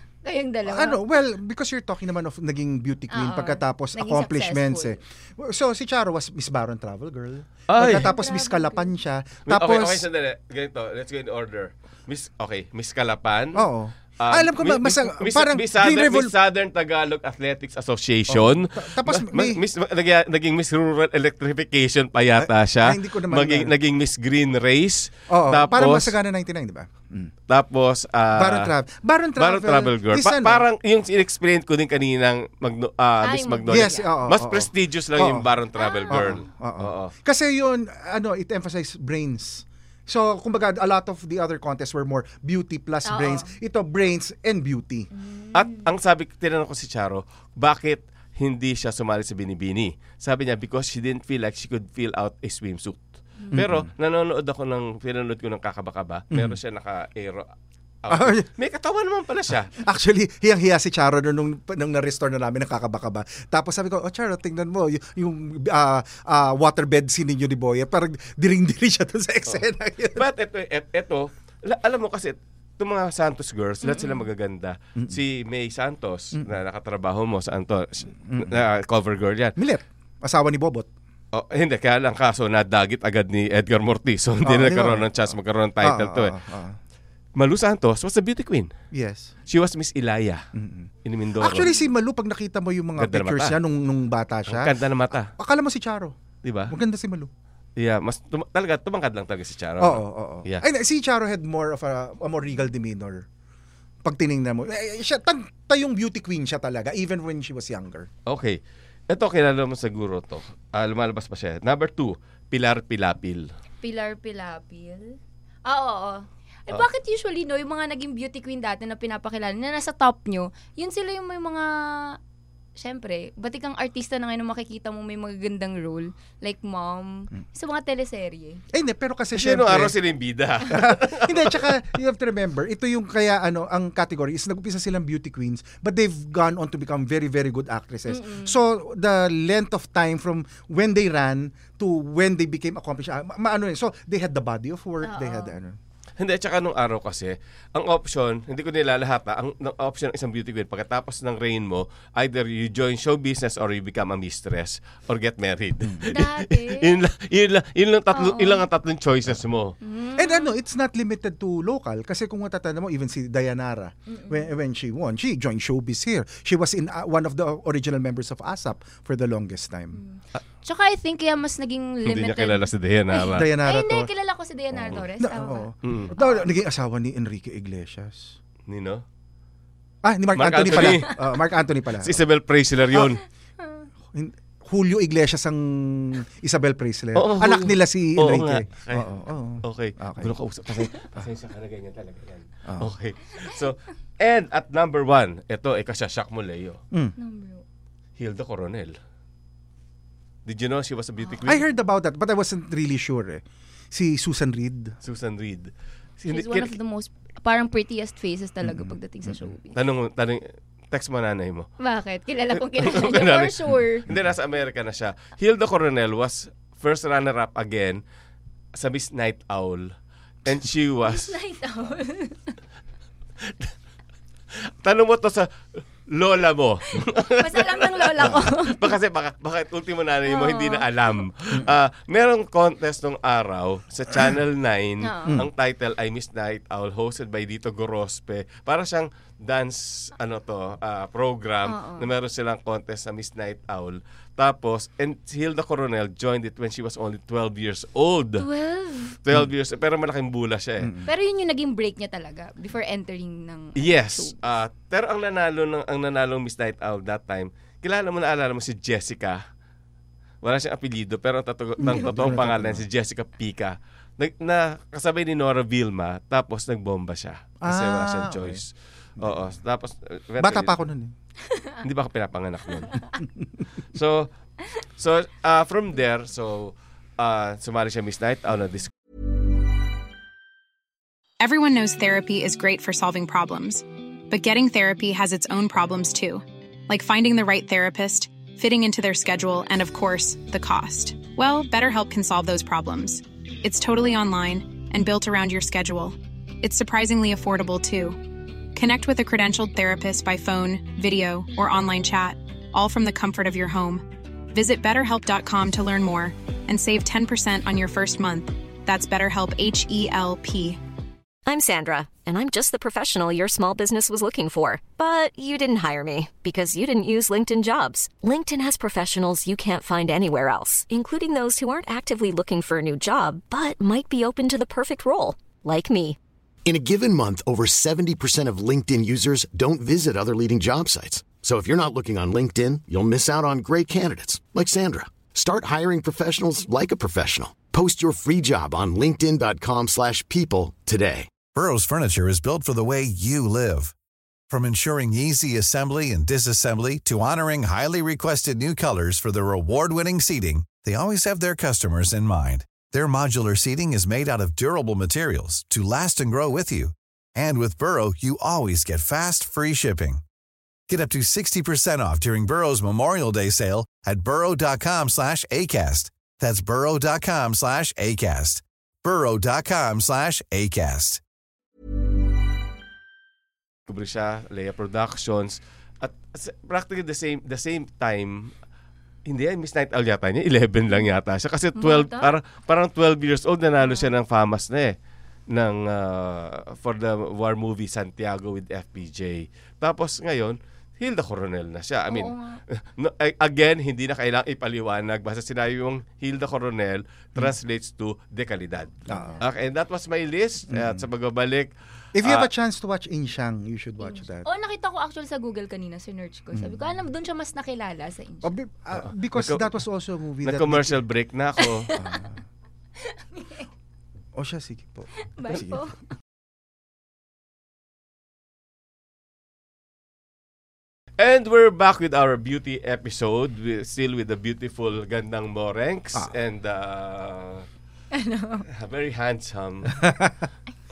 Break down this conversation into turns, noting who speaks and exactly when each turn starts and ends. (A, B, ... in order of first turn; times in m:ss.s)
0:00.2-0:01.0 A
0:00.6-0:10.0 B
0:03.1-0:05.0 A
0:07.7-0:08.1 C
0:07.9-0:08.9 A
0:09.5-0:13.6 C
0:13.5-0:16.3 B
0:14.2-0:26.2 C
0:18.3-0:19.6 B
0:22.4-0:23.7 B
0:25.3-0:27.3 B
0:27.5-0:28.7 C
0:28.3-0:30.6 B
0:29.4-0:37.1 C
0:33.2-0:34.1 A
0:33.7-0:35.5 B
0:35.8-0:36.4 A
0:36.1-0:45.1 B
0:43.0-0:43.5 A
0:45.1-0:45.8 A
0:45.5-0:57.5 C
0:53.5-0:53.9 B
0:56.3-0:56.6 B
0:58.0-0:59.7 C
0:58.1-0:58.4 B
0:59.8-1:10.3 B
1:10.1-1:19.5 C
1:13.8-1:14.2 A
1:18.3-1:18.6 B
1:19.6-1:20.9 B
1:21.3-1:26.3 C
1:24.4-1:25.1 B
1:25.8-1:26.8 B
1:27.4-1:28.7 C
1:28.9-1:29.3 B
1:29.5-1:30.4 C
1:30.5-1:34.7 B
1:31.0-1:31.7 C
1:33.0-1:33.6 C
1:34.5-1:35.3 C
1:35.4-1:36.2 B
1:36.4-1:36.7 C
1:36.7-1:37.3 B
1:37.8-1:40.6 C
1:39.8-1:43.2 B
1:44.0-1:48.1 B
1:48.2-1:53.5 C
1:53.8-2:02.2 A
2:02.8-2:08.6 A
2:08.7-2:09.9 B
2:09.4-2:11.8 C
2:10.6-2:25.8 B
2:18.1-2:18.6 A
2:25.0-2:25.5 A
2:26.2-2:39.7 C
2:36.1-2:36.9 A
2:38.1-2:38.6 A
2:39.8-2:40.5 A
2:40.2-2:50.0 B
2:44.1-2:44.4 A
2:50.0-2:56.4 A
2:52.0-2:53.5 C
2:53.3-2:54.1 B
2:54.8-2:58.3 B
2:55.8-2:56.1 C
2:58.7-2:59.0 C
3:00.0-3:02.2 B
3:00.4-3:01.2 C
3:02.0-3:03.2 C
3:04.1-3:10.3 B
3:07.1-3:16.8 C
3:12.7-3:12.9 B
3:17.2-3:17.6 A
3:18.2-3:19.0 C
3:20.4-3:21.6 C
3:21.4-3:25.0 B
3:25.0-3:26.8 C
3:26.3-3:29.8 A
3:28.6-3:29.4 B
3:29.7-3:31.7 C
3:31.8-3:34.0 A
3:32.5-3:38.0 C
3:38.7-3:39.9 C
3:40.4-3:41.3 C
3:41.1-3:42.5 A
3:44.8-3:45.5 C
3:46.1-4:08.5 C
3:47.4-3:48.8 A
3:50.3-3:50.9 A
3:55.0-3:55.4 A
4:01.7-4:02.1 A
4:08.4-4:09.2 A
4:09.2-4:10.9 C
4:10.8-4:11.1 B
4:11.0-4:14.3 A
4:13.8-4:19.4 C
4:20.4-4:30.7 C
4:21.8-4:22.8 B
4:27.6-4:28.6 B
4:29.2-4:29.5 B
4:30.4-4:31.1 B
4:31.8-4:33.1 C
4:33.9-4:34.3 C
4:35.0-4:38.9 C
4:41.4-5:10.8 D
5:11.4-5:26.2 E
5:26.6-5:41.3 F
5:41.5-5:43.9 G
5:44.5-6:00.2 G
6:00.9-6:11.2 G
6:13.9-6:18.5 C
6:19.3-6:24.9 C
6:21.8-6:22.3 A
6:23.8-6:24.1 A
6:25.5-6:41.7 C
6:32.1-6:32.6 A
6:39.1-6:39.4 B
6:40.7-6:41.0 B
6:42.1-6:44.5 B
6:42.2-6:42.5 C
6:44.0-6:48.5 A
6:46.5-6:46.8 B
6:48.4-6:51.0 B
6:49.0-6:49.7 C
6:50.4-6:51.9 C
6:51.6-6:52.2 A
6:51.9-6:52.4 B
6:53.3-6:53.6 A
6:54.3-6:55.8 B
6:55.4-6:56.0 A
7:01.2-7:07.6 C
7:08.1-7:08.6 A
7:08.7-7:10.0 C
7:09.9-7:10.5 B